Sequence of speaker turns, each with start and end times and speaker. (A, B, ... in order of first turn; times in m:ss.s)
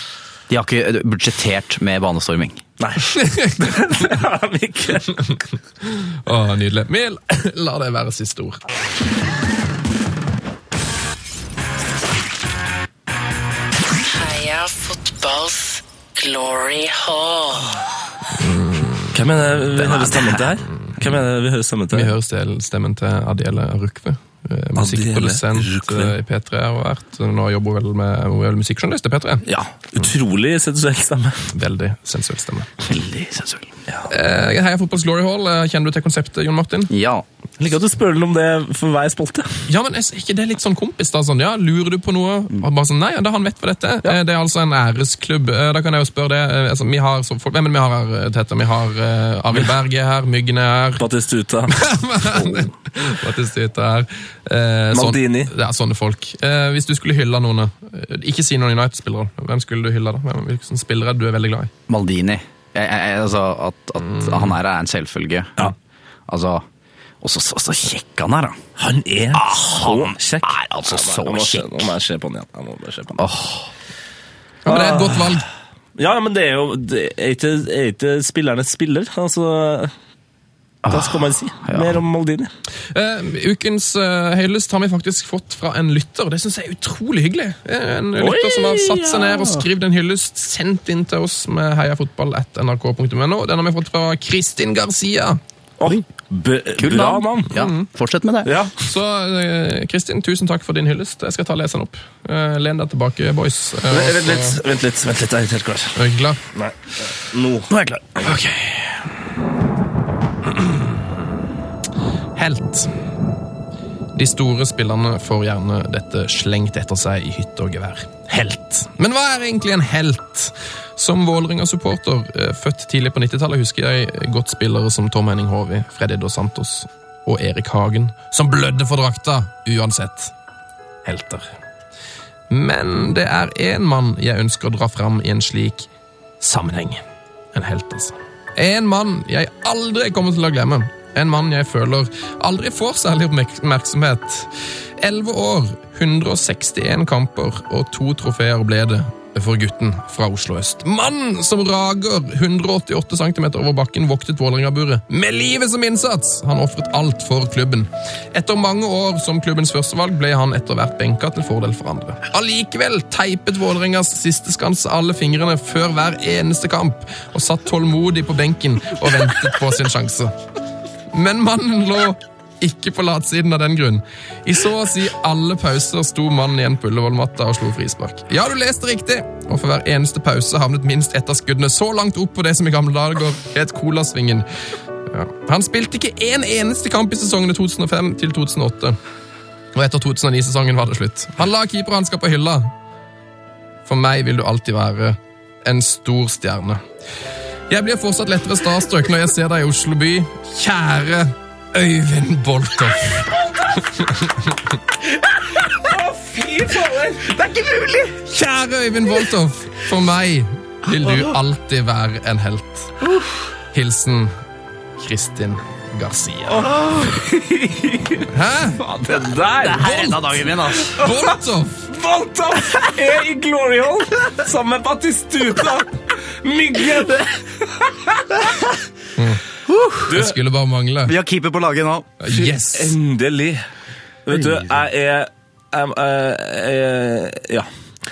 0:00.5-0:02.6 A
0:02.8-0:05.2 B
0:03.1-0:03.9 C
0:05.8-0:08.6 C
0:14.0-0:17.8 D
0:18.4-0:19.2 C
0:19.1-0:22.1 B
0:19.8-0:20.4 A
0:21.9-0:29.4 C
0:24.8-0:26.1 B
0:29.5-0:31.4 B
0:31.5-0:32.7 C
0:32.8-0:33.7 A
0:34.1-0:36.9 C
0:36.9-0:37.2 A
0:37.6-0:39.6 B
0:39.7-0:51.0 C
0:51.0-0:51.8 B
0:51.7-1:01.7 C
0:54.9-0:55.5 B
1:01.9-1:05.7 A
1:06.3-1:06.6 A
1:07.2-1:08.6 A
1:08.8-1:13.2 B
1:09.3-1:11.9 A
1:13.2-1:13.7 A
1:14.6-1:15.4 C
1:14.6-1:15.4 B
1:16.0-1:19.9 B
1:20.8-1:22.0 A
1:20.9-1:22.5 B
1:22.9-1:35.4 C
1:28.2-1:29.6 B
1:35.8-1:37.5 B
1:36.8-1:38.5 A
1:37.5-1:37.9 C
1:38.4-1:38.7 B
1:38.8-1:44.6 C
1:43.9-1:46.0 B
1:46.0-1:46.4 C
1:46.5-1:47.7 B
1:47.7-1:49.0 A
1:52.4-1:52.9 C
1:54.1-2:10.3 C
2:11.0-2:11.5 C
2:12.5-2:15.9 C
2:16.4-2:17.0 C
2:17.5-2:50.3 C
2:51.1-3:04.4 C
3:05.1-3:09.0 C
3:09.7-3:12.7 C
3:13.9-3:16.8 C
3:17.7-3:24.8 C
3:25.7-3:27.3 B
3:27.2-3:28.1 A
3:28.2-3:32.9 C
3:33.7-3:34.3 C
3:35.0-3:36.7 C
3:36.5-3:38.3 B
3:38.3-3:38.8 C
3:38.8-3:40.1 B
3:39.1-3:41.1 A
3:39.8-3:41.9 C
3:41.9-3:48.6 B
3:49.6-3:50.1 A
3:50.1-3:50.4 B
3:50.1-3:51.1 C
3:51.0-3:52.1 A
3:52.2-3:53.0 C
3:52.3-3:53.6 B
3:54.3-3:57.7 B